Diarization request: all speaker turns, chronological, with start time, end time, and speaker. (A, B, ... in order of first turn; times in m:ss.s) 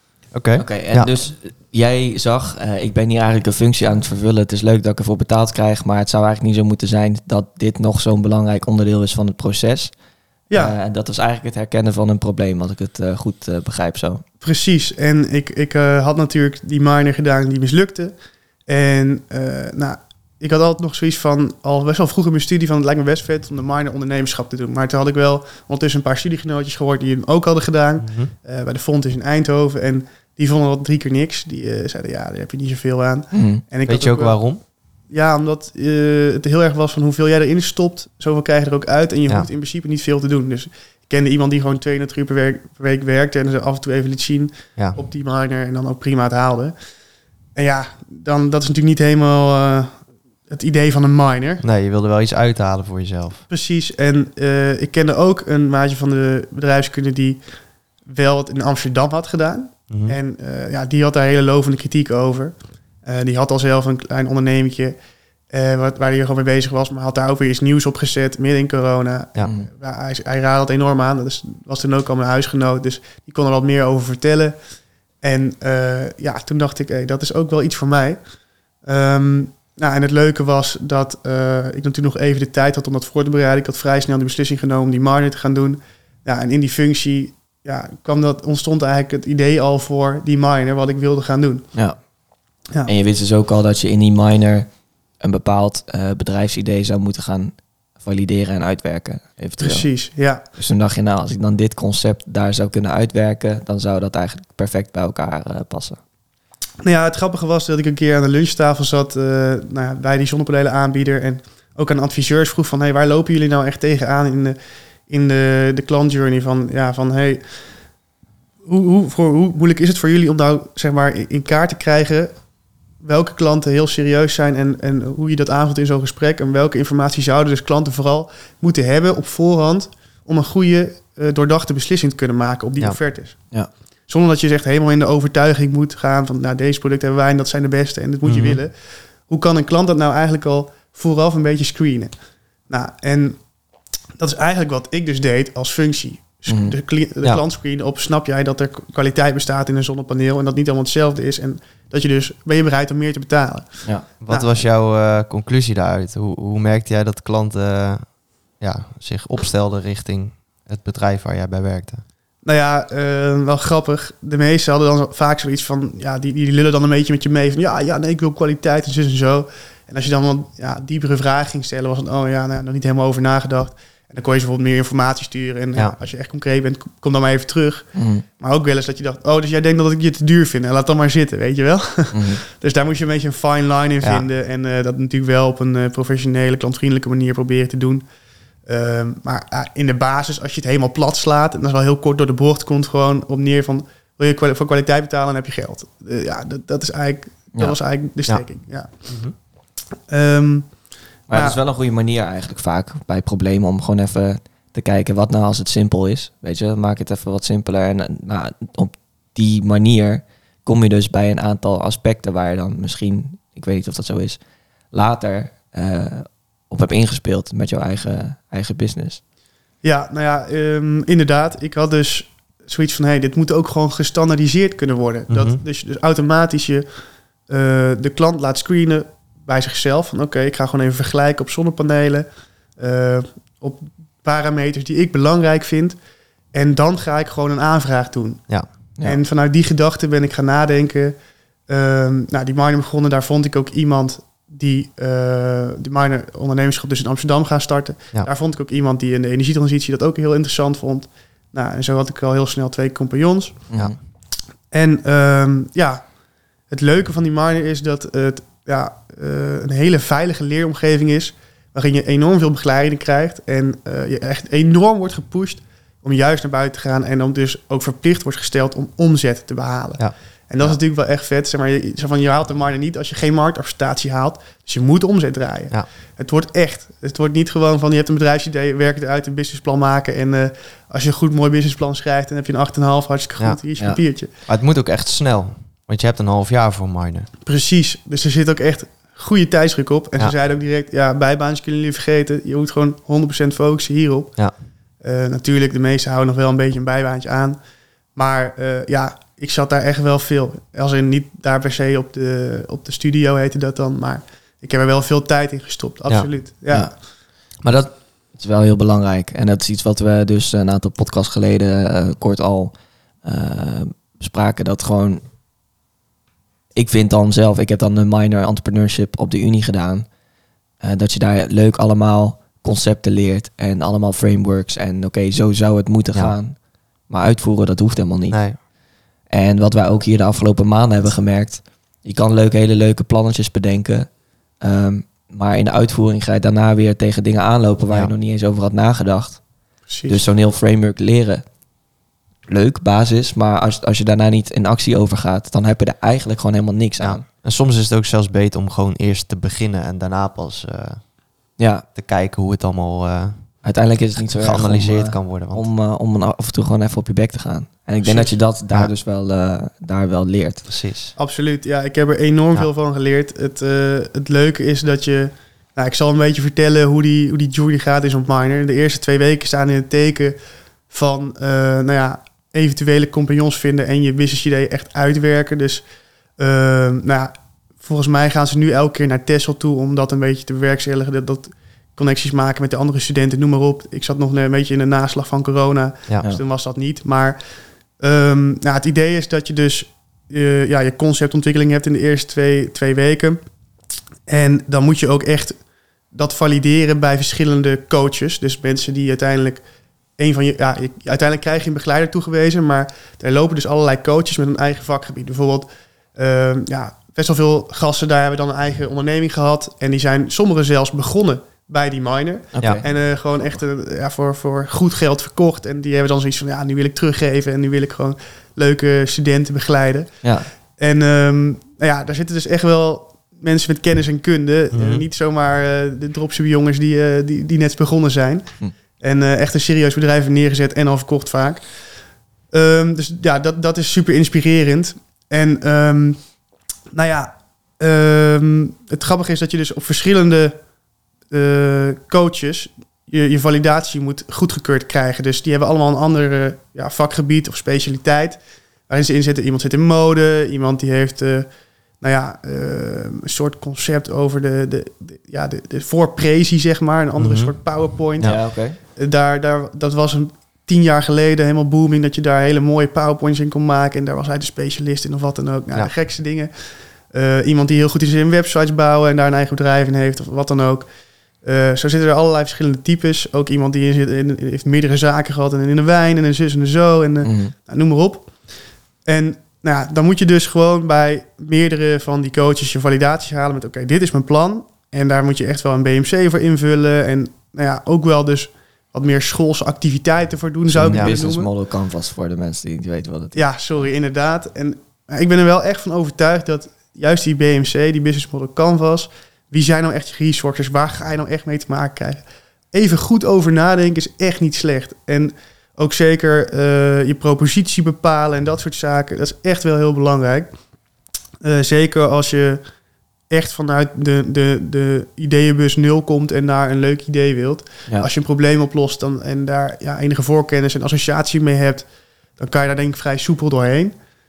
0:00.3-0:01.1 A
0:00.6-0:09.9 B
0:10.5-0:10.8 C
0:10.5-0:14.2 B
0:14.4-0:18.1 C
0:18.7-0:34.4 C
0:28.0-0:28.3 A
0:33.3-0:33.6 B
0:33.8-0:34.6 A
0:35.1-0:46.7 C
0:47.6-0:50.0 C
0:50.5-0:51.6 C
0:51.6-0:53.4 A
0:53.5-0:57.4 C
0:58.0-1:05.0 C
0:59.9-1:00.2 A
1:05.5-1:14.6 C
1:09.4-1:09.7 B
1:15.2-1:18.2 C
1:18.8-1:31.7 C
1:32.8-1:39.9 B
1:39.6-1:40.4 C
1:40.6-1:46.0 B
1:46.8-1:54.6 C
1:55.1-1:57.4 C
1:58.6-2:02.3 C
2:03.0-2:13.4 C
2:14.1-2:22.1 C
2:18.2-2:18.6 A
2:22.7-2:23.4 C
2:24.2-2:34.6 C
2:26.5-2:26.7 B
2:34.2-2:42.0 A
2:42.4-3:08.0 C
2:57.9-2:58.2 B
3:02.1-3:02.4 B
3:08.6-3:19.1 C
3:19.0-3:19.3 A
3:20.1-3:20.7 C
3:21.3-3:34.4 B
3:21.3-3:21.6 C
3:34.9-3:39.2 B
3:39.8-3:46.8 C
3:45.3-3:45.6 A
3:47.5-3:52.3 C
3:52.8-3:56.0 C
3:56.5-4:01.1 C
4:01.7-4:13.6 C
4:13.7-4:14.0 B
4:14.7-4:16.0 C
4:16.7-4:44.3 C
4:30.0-4:30.8 A
4:44.4-4:47.3 A
4:47.4-4:54.3 C
4:55.0-4:57.6 C
4:58.1-5:06.9 C
5:07.6-5:15.2 B
5:16.7-5:20.1 B
5:20.8-5:28.4 B
5:28.3-5:28.6 A
5:29.3-5:34.1 B
5:34.6-5:39.4 B
5:39.9-5:40.2 C
5:40.1-5:41.4 B
5:42.5-5:47.2 B
5:47.0-5:51.1 A
5:51.6-5:51.8 B
5:51.9-5:53.6 A
5:53.6-6:00.6 B
5:54.3-5:55.6 A
5:58.0-5:58.3 C
6:00.7-6:01.1 A
6:01.2-6:10.4 C
6:10.9-6:15.8 C
6:16.4-6:27.4 C
6:28.0-6:33.4 C
6:34.3-6:35.6 C
6:36.1-6:39.6 C
6:40.2-7:00.1 C
6:52.5-6:52.8 B
7:00.2-7:00.5 B
7:00.8-7:11.8 C
7:04.7-7:05.0 A
7:12.5-7:16.2 C
7:16.9-7:20.6 C
7:21.3-7:31.5 C
7:32.0-7:38.4 C
7:37.2-7:37.5 A
7:38.2-7:38.8 B
7:39.0-7:46.5 C
7:47.1-7:50.9 C
7:51.4-7:58.3 C
7:57.2-7:57.5 B
7:59.0-8:11.5 C
8:10.7-8:13.4 B
8:13.3-8:30.5 C
8:31.4-8:32.6 C
8:33.3-8:41.8 C
8:42.4-8:43.9 C